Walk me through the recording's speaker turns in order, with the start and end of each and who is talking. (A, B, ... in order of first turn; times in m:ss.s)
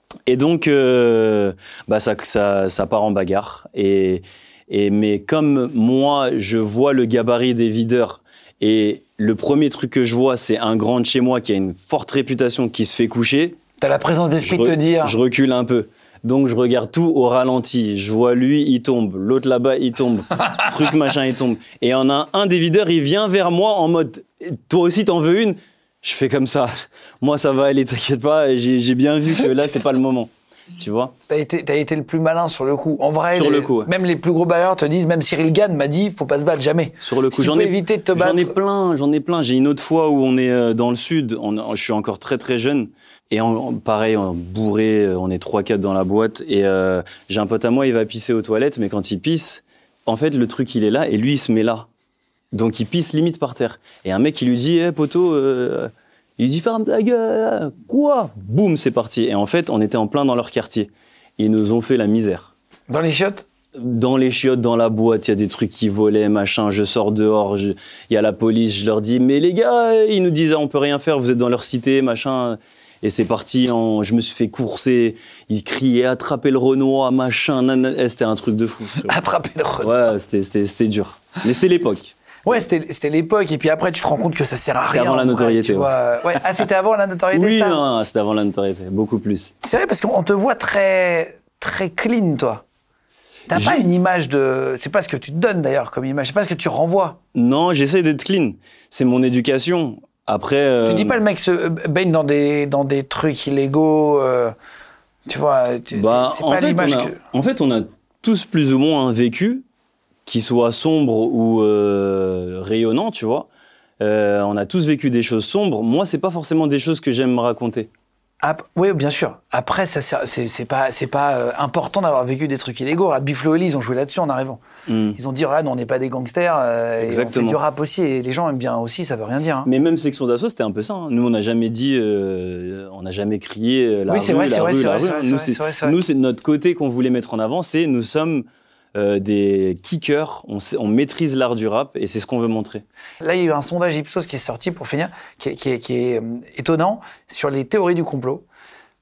0:00.3-0:13.6 A
0:13.8-0:15.2 B
0:14.4-0:31.2 A
0:31.3-0:38.6 B
0:33.3-0:33.9 A
0:37.0-0:51.9 A
0:52.5-1:02.5 A
1:02.9-1:03.5 B
1:03.8-1:19.1 A
1:19.0-1:19.9 B
1:19.8-1:22.2 A
1:22.4-1:27.8 B
1:24.8-1:26.4 A
1:27.3-1:29.5 A
1:29.6-1:32.6 B
1:33.5-1:37.2 B
1:33.5-1:33.8 A
1:37.4-1:41.2 A
1:40.9-1:44.5 B
1:45.3-1:47.2 B
1:45.9-1:49.6 A
1:50.3-1:53.5 A
1:54.0-1:57.9 A
1:58.4-2:04.6 B
2:04.9-2:05.2 A
2:05.2-2:09.7 B
2:07.0-2:07.6 A
2:09.7-2:22.8 A
2:14.1-2:16.0 B
2:23.2-2:28.4 B